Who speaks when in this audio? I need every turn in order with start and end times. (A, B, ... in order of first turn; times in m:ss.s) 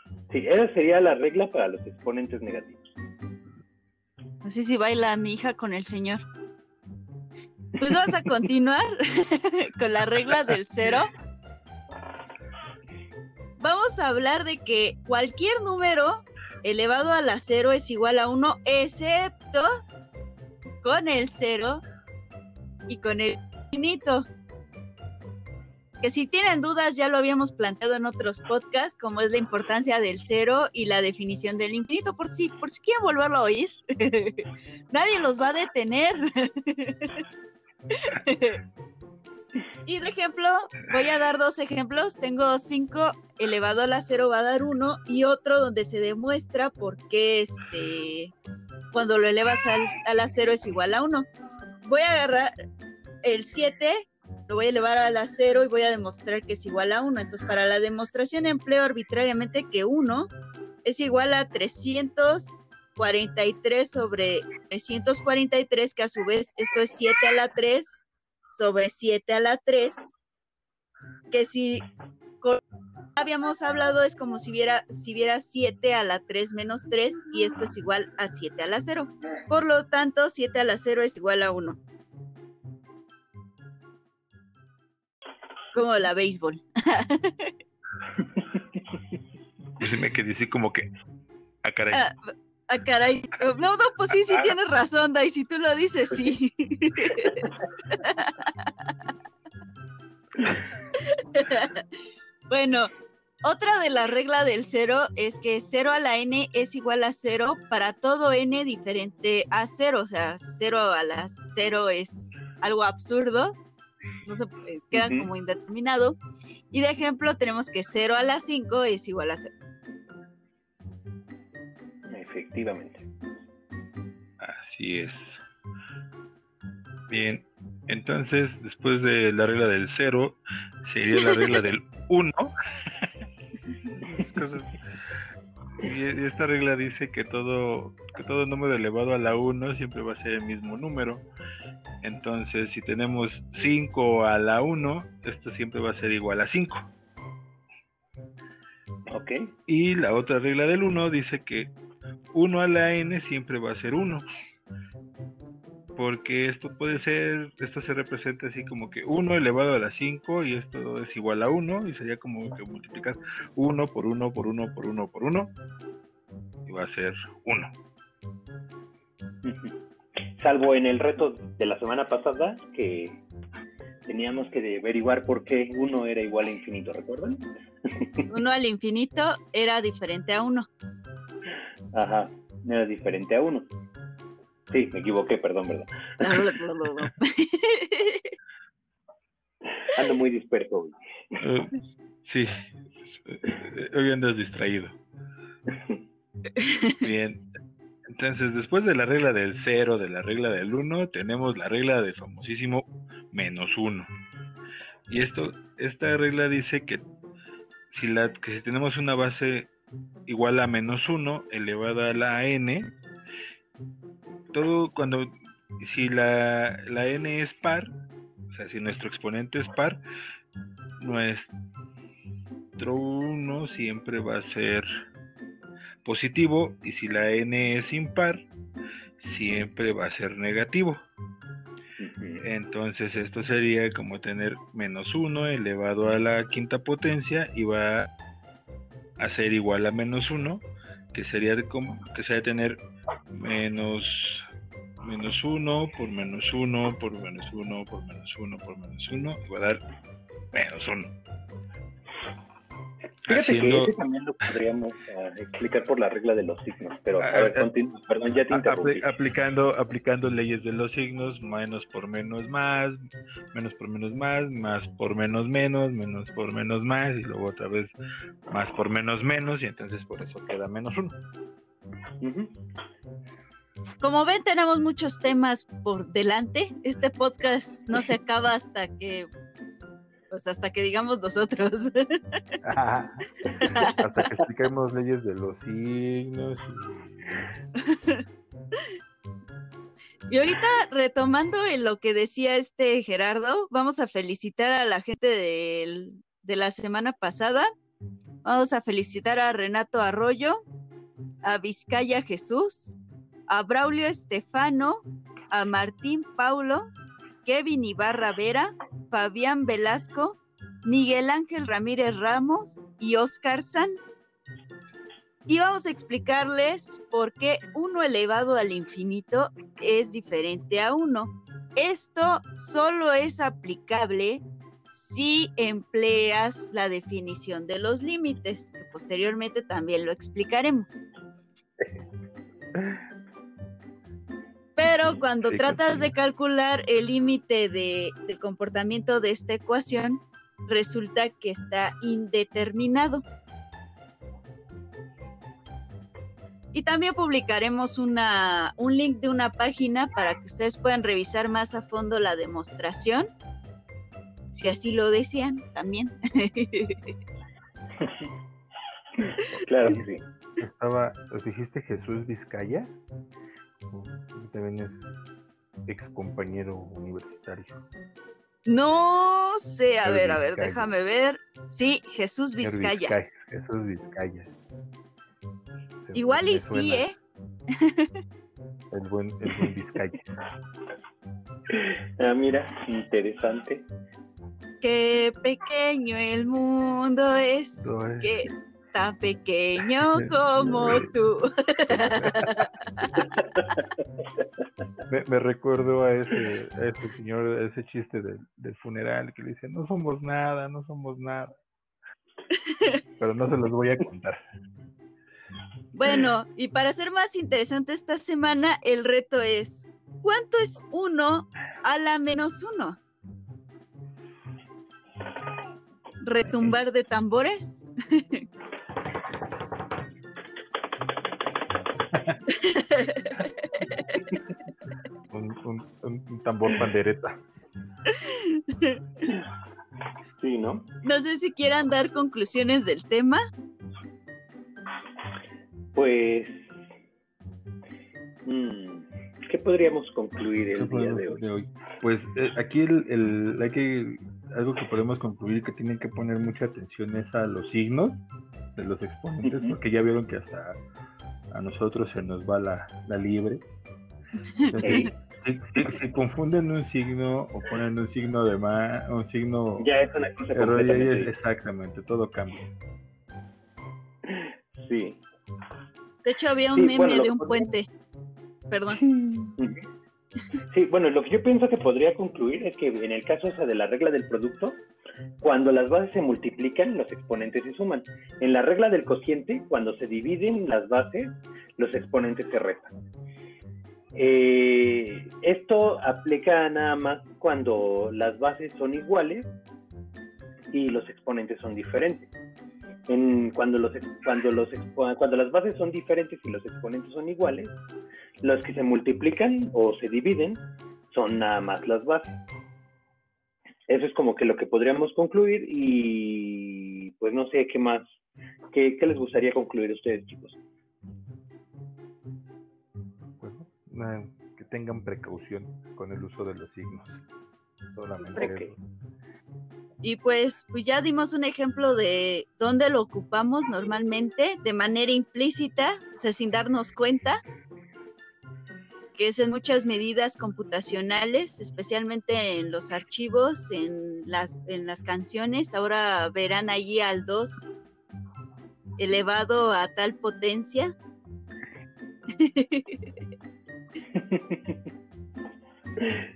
0:00.3-0:02.9 A
0:04.4-0:06.2 B
0:07.8-0:11.1 B
0:13.6-0:19.7 B
0:20.8-0:21.8 B
0:22.9-0:24.3 B
0:26.0-0:37.2 B
0:37.9-0:38.6 B
0:39.9-0:48.3 B
0:48.9-0:51.3 B
0:51.8-0:52.5 B
0:53.2-1:00.3 B
1:00.8-1:10.1 B
1:11.3-1:11.8 B
1:13.2-1:21.8 B
1:25.7-1:27.5 B
1:29.8-1:30.9 C
1:31.6-1:32.0 C
1:32.7-1:38.5 B
1:41.0-1:41.8 B
1:42.5-1:42.9 B
1:43.4-1:53.6 B
1:54.2-1:56.2 B
1:54.9-1:55.3 A
1:56.7-1:59.5 B
2:02.1-2:03.0 A
2:04.4-2:05.4 C
2:07.1-2:13.1 C
2:14.0-2:14.8 C
2:15.8-2:21.2 C
2:22.0-2:26.9 C
2:29.1-2:29.5 A
2:29.7-2:31.7 C
2:32.3-2:34.2 C
2:36.0-2:45.5 C
2:46.7-2:47.7 C
2:49.4-2:49.8 A
2:50.4-2:53.2 A
2:54.1-2:58.3 A
2:58.3-3:00.7 B
3:01.9-3:03.7 A
3:04.7-3:06.4 A
3:06.2-3:08.3 B
3:09.8-3:11.4 A
3:11.4-3:15.0 C
3:16.6-3:17.0 B
3:17.0-3:17.4 C
3:18.1-3:24.1 C
3:25.1-3:27.0 C
3:27.9-3:29.7 C
3:30.3-3:32.9 C
3:34.5-3:37.9 C
3:38.5-3:40.0 C
3:41.0-3:41.5 C
3:42.8-3:44.9 C
3:46.0-3:48.5 C
3:49.2-3:51.0 C
3:52.0-3:52.5 A
3:52.4-3:58.1 C
3:59.2-4:04.4 C
4:05.0-4:09.8 C
4:10.5-4:11.1 C
4:13.3-4:13.9 C
4:13.3-4:19.1 A
4:17.2-4:17.7 C
4:18.4-4:23.0 C
4:23.5-4:28.0 C
4:28.5-4:31.2 C
4:32.2-4:32.5 A
4:34.0-4:39.3 B
4:40.3-4:42.4 B
4:42.6-4:47.4 C
4:43.6-4:43.9 B
4:47.8-4:48.2 B
4:50.3-4:57.7 B
4:58.4-5:00.6 B
5:01.4-5:03.0 B
5:03.5-5:06.9 B
5:07.4-5:14.0 B
5:15.5-5:31.1 B
5:32.8-5:33.0 C
5:34.8-5:43.2 B
5:34.8-5:36.1 C
5:46.7-5:53.3 B
5:54.5-5:57.0 B
5:58.0-5:58.3 A
5:59.2-6:00.2 A
6:00.6-6:03.0 C
6:03.9-6:05.2 C
6:05.9-6:07.8 C
6:08.7-6:13.2 B
6:10.0-6:10.9 C
6:12.6-6:14.5 C
6:16.0-6:17.1 C
6:16.1-6:17.1 B
6:17.8-6:18.1 B
6:18.9-6:20.2 C
6:21.7-6:23.8 A
6:24.8-6:33.1 B
6:27.8-6:28.4 C
6:30.1-6:31.1 C
6:31.9-6:32.6 C
6:35.1-6:41.6 C
6:43.2-6:44.4 C
6:45.9-6:53.0 B
6:56.2-6:58.4 B
6:56.5-6:56.8 C
7:02.1-7:02.4 C
7:02.5-7:04.1 B
7:05.3-7:07.4 C
7:08.1-7:09.0 B
7:10.4-7:10.9 A
7:11.0-7:13.4 B
7:16.0-7:16.7 A
7:18.4-7:21.4 A
7:20.8-7:28.2 C
7:28.8-7:30.8 C
7:29.4-7:29.8 A
7:31.5-7:33.6 C
7:34.6-7:35.1 B
7:34.7-7:39.9 C
7:34.8-7:35.1 A
7:39.8-7:41.3 A
7:40.5-7:42.7 C
7:44.2-7:45.2 A
7:46.2-7:47.9 B
7:46.8-7:47.7 A
7:48.7-7:49.0 B
7:49.1-7:49.8 A
7:50.7-7:54.8 A
7:55.4-8:02.9 A
8:04.2-8:09.5 A
8:10.7-8:12.3 A
8:13.1-8:17.8 A
8:18.4-8:22.4 A
8:23.9-8:28.1 A
8:28.7-8:30.6 A
8:33.4-8:37.2 C
8:38.0-8:38.8 C
8:38.3-8:38.7 A
8:40.0-8:47.4 B
8:49.2-8:57.7 B
8:59.0-9:00.9 B
9:02.3-9:03.0 B
9:04.2-9:04.8 A